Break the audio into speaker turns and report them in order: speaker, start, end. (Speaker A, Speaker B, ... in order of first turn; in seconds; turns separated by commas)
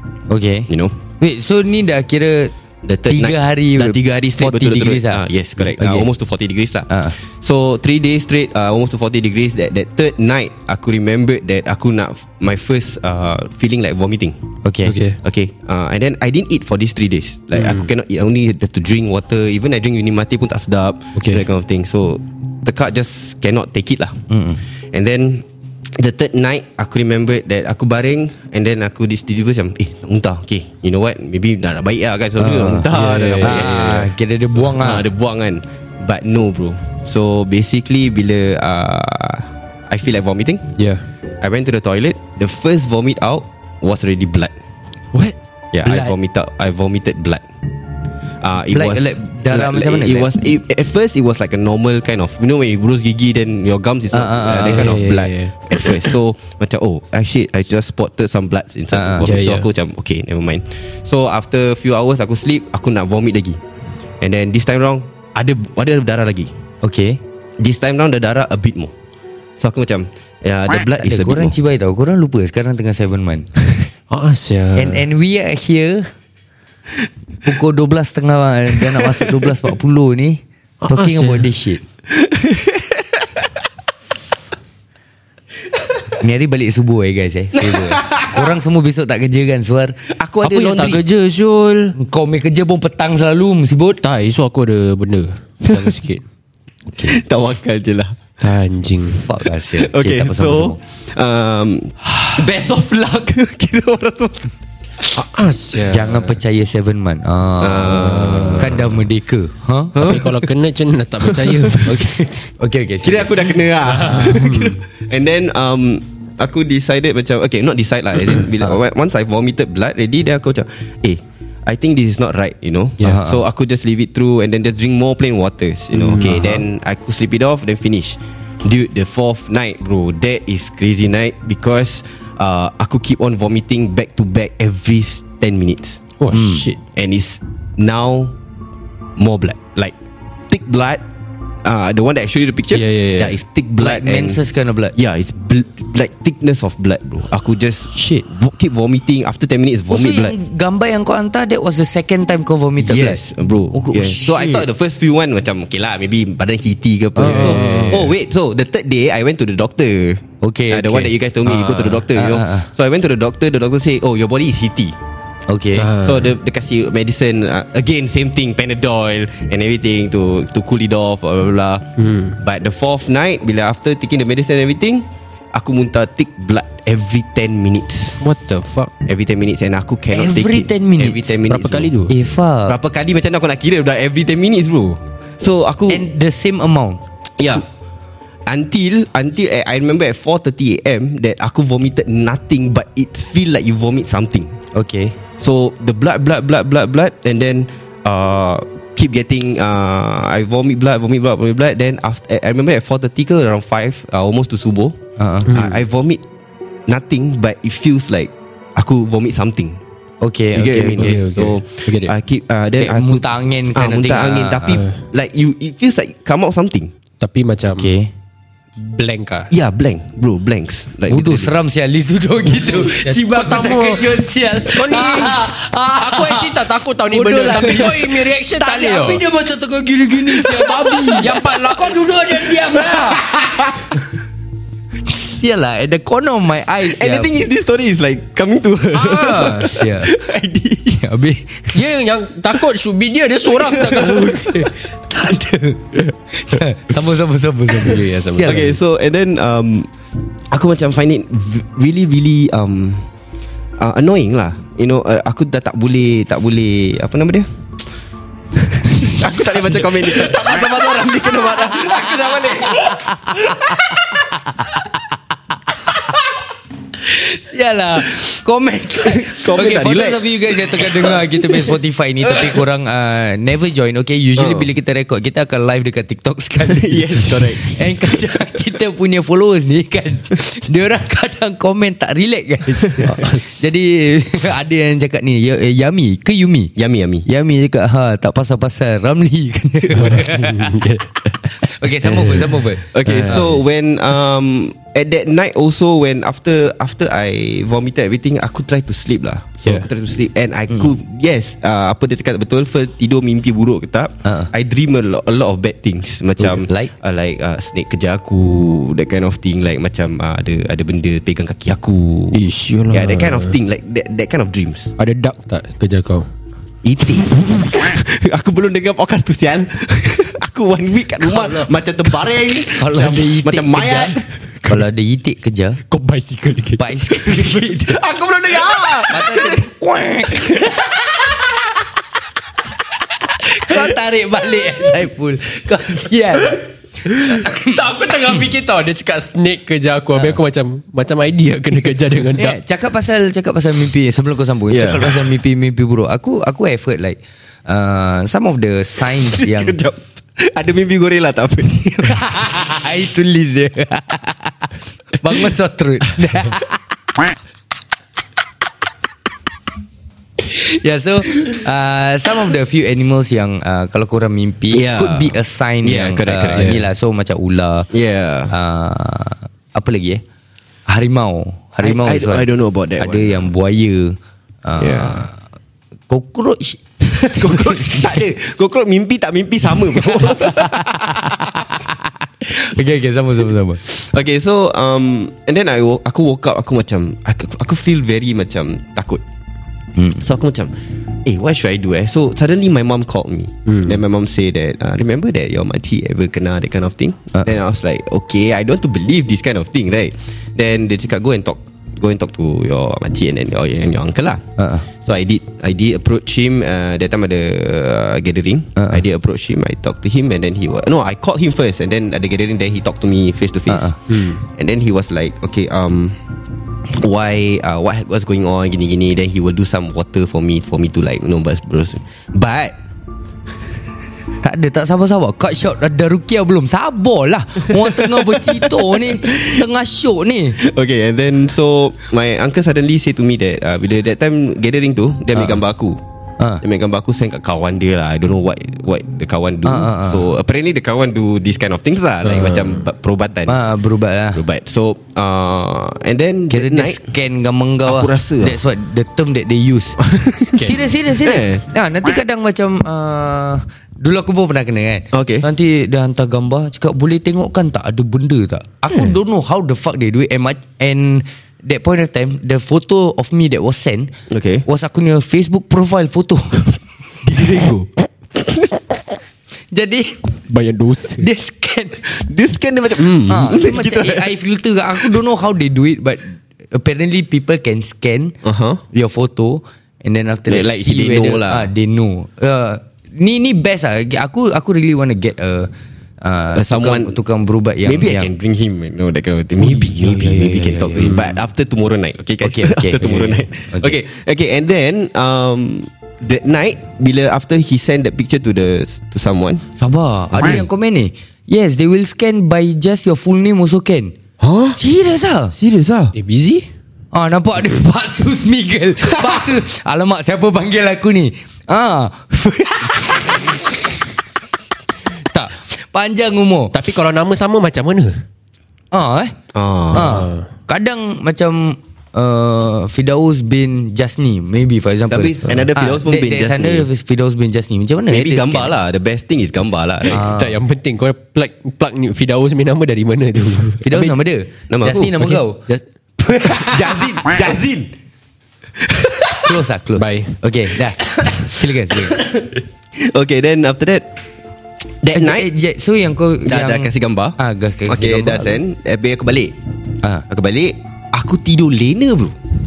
Speaker A: 0.3-2.5, Speaker B: 0.7-1.0, Speaker B: 2.8-14.4, Speaker A: 3.1-6.1, Speaker A: 6.9-7.2, Speaker A: 14.6-14.9, Speaker C: 14.8-15.2, Speaker B: 15.2-24.2, Speaker C: 21.2-21.4, Speaker A: 24.3-24.6, Speaker B: 24.8-34.1, Speaker A: 32.4-32.9, Speaker C: 32.9-34.1, Speaker A: 33.4-35.1, Speaker B: 34.6-40.7, Speaker C: 40.8-41.0, Speaker B: 41.4-44.5, Speaker B: 45.7-47.5, Speaker A: 45.9-46.1, Speaker B: 48.4-63.6, Speaker A: 48.7-50.3, Speaker A: 54.1-55.0, Speaker C: 54.6-56.1, Speaker A: 58.9-59.4, Speaker C: 59.2-59.7, Speaker B: 64.2-66.5, Speaker A: 66.8-67.2, Speaker B: 67.6-68.9, Speaker B: 69.6-71.6, Speaker A: 71.0-73.5, Speaker C: 74.1-75.0, Speaker A: 74.8-76.1, Speaker A: 77.5-81.8, Speaker B: 79.0-79.3, Speaker C: 80.8-81.5, Speaker B: 82.1-83.5, Speaker A: 86.2-90.0, Speaker B: 87.5-88.5, Speaker B: 90.1-91.0, Speaker C: 90.4-91.9, Speaker A: 92.0-94.0, Speaker C: 94.0-96.2, Speaker A: 96.9-97.2, Speaker B: 97.0-98.2, Speaker C: 98.4-99.2, Speaker A: 99.2-100.8, Speaker B: 99.8-104.5, Speaker C: 105.2-106.3, Speaker A: 105.9-110.0, Speaker B: 107.6-108.9, Speaker C: 107.9-108.8, Speaker B: 109.9-110.4, Speaker C: 110.0-112.0, Speaker B: 111.2-111.9, Speaker A: 111.8-114.5, Speaker B: 113.0-136.1, Speaker C: 114.0-114.8, Speaker A: 123.0-123.4, Speaker C: 125.9-126.6, Speaker C: 136.2-136.8, Speaker A: 136.3-136.7, Speaker B: 136.9-138.3, Speaker B: 139.2-139.9, Speaker B: 140.5-141.0, Speaker B: 141.6-144.4, Speaker C: 142.7-143.4, Speaker A: 143.8-144.9, Speaker B: 144.9-150.4, Speaker C: 147.9-148.3, Speaker A: 149.9-153.2, Speaker B: 152.8-165.0, Speaker A: 153.7-154.7, Speaker A: 157.2-158.0, Speaker C: 157.2-158.1, Speaker A: 160.4-162.7, Speaker A: 165.5-165.9, Speaker C: 165.8-166.3, Speaker B: 166.0-178.3, Speaker C: 172.0-172.3, Speaker C: 178.2-178.9, Speaker B: 179.1-181.9, Speaker A: 180.1-181.3, Speaker C: 181.5-182.1, Speaker A: 182.1-182.8, Speaker B: 182.7-186.1, Speaker A: 185.9-187.0, Speaker B: 187.4-187.7, Speaker B: 188.5-194.6, Speaker A: 194.7-195.2, Speaker B: 195.4-206.2, Speaker A: 205.2-205.5, Speaker C: 205.5-205.8, Speaker B: 206.9-209.8, Speaker A: 210.2-211.2, Speaker B: 210.5-216.9, Speaker C: 211.0-212.2, Speaker A: 212.8-214.8, Speaker C: 214.7-215.0, Speaker C: 217.2-217.9, Speaker A: 217.7-218.1, Speaker C: 218.8-219.5, Speaker B: 219.5-221.6, Speaker A: 221.1-233.3, Speaker C: 222.6-229.2, Speaker C: 230.3-233.2, Speaker B: 233.4-233.8, Speaker A: 235.1-237.3, Speaker B: 236.8-241.0, Speaker C: 238.9-239.7, Speaker A: 239.6-240.1, Speaker A: 241.0-241.8, Speaker C: 241.7-244.6, Speaker B: 243.8-244.5, Speaker A: 244.0-248.7, Speaker C: 247.8-248.7, Speaker B: 248.5-249.9, Speaker B: 250.5-253.1, Speaker B: 253.8-257.5, Speaker B: 258.5-264.2, Speaker A: 261.6-264.9, Speaker A: 267.1-286.7, Speaker B: 269.0-271.7, Speaker B: 274.4-274.7, Speaker B: 276.6-277.8, Speaker C: 283.0-283.6, Speaker B: 286.8-287.3, Speaker A: 287.2-290.9, Speaker C: 290.0-291.5, Speaker A: 291.6-293.5, Speaker C: 292.0-293.5, Speaker B: 292.9-314.9, Speaker A: 304.2-304.5, Speaker A: 306.4-306.9, Speaker C: 312.3-313.6, Speaker C: 315.0-316.3, Speaker B: 316.8-324.3, Speaker A: 322.8-325.8, Speaker C: 325.9-327.6, Speaker A: 326.8-328.0, Speaker B: 327.9-329.7, Speaker A: 329.1-331.2, Speaker A: 333.3-337.8, Speaker C: 337.1-342.6, Speaker A: 342.4-349.8, Speaker B: 344.7-345.3, Speaker B: 349.1-352.2, Speaker A: 351.8-356.8, Speaker A: 360.4-367.9, Speaker B: 364.7-366.8, Speaker C: 366.6-366.9, Speaker B: 367.9-368.5, Speaker A: 368.5-370.2, Speaker A: 370.9-372.5, Speaker B: 371.8-373.5, Speaker A: 373.0-375.4, Speaker B: 374.8-375.2, Speaker A: 376.1-378.0, Speaker B: 377.1-381.2, Speaker A: 380.0-381.9, Speaker A: 382.4-383.8, Speaker B: 383.9-389.2, Speaker B: 390.2-390.7, Speaker B: 391.2-416.2, Speaker A: 404.6-404.9, Speaker A: 413.7-414.0, Speaker B: 416.9-422.8, Speaker A: 424.4-430.6, Speaker B: 427.7-429.6, Speaker B: 430.6-436.0, Speaker B: 436.6-443.6, Speaker A: 439.7-440.2, Speaker C: 442.2-442.8, Speaker A: 443.5-444.4, Speaker B: 444.3-447.0, Speaker A: 446.5-464.1, Speaker B: 447.9-448.6, Speaker B: 450.0-451.6, Speaker B: 455.1-455.5, Speaker B: 464.3-464.6, Speaker A: 464.7-466.7, Speaker B: 467.2-468.8, Speaker A: 469.7-470.2, Speaker C: 470.5-471.2, Speaker A: 471.2-472.0, Speaker B: 472.1-474.3, Speaker A: 473.3-478.4, Speaker B: 478.4-478.8, Speaker A: 478.9-488.3, Speaker B: 480.5-481.7, Speaker B: 486.6-487.2, Speaker B: 487.9-499.6, Speaker A: 489.6-491.2, Speaker A: 492.4-494.0, Speaker A: 499.8-504.1, Speaker B: 500.4-500.6, Speaker B: 504.4-504.8, Speaker A: 504.8-505.5, Speaker B: 505.6-506.2, Speaker C: 506.2-506.7, Speaker A: 507.1-513.3, Speaker B: 509.1-509.5, Speaker A: 515.9-516.8, Speaker C: 516.7-518.1, Speaker A: 518.9-519.4, Speaker B: 519.5-520.3, Speaker A: 519.9-528.7, Speaker C: 519.9-520.5, Speaker B: 525.1-526.9, Speaker B: 528.1-530.3, Speaker C: 530.1-533.8, Speaker A: 530.1-530.6, Speaker A: 533.9-535.6, Speaker B: 533.9-535.1, Speaker C: 535.2-535.8, Speaker A: 536.2-536.6, Speaker B: 536.5-537.9, Speaker B: 538.8-539.6, Speaker A: 539.4-542.2, Speaker C: 540.0-540.3, Speaker B: 541.2-544.1, Speaker B: 545.0-545.5, Speaker A: 545.1-548.6, Speaker B: 546.5-549.6, Speaker B: 550.3-552.4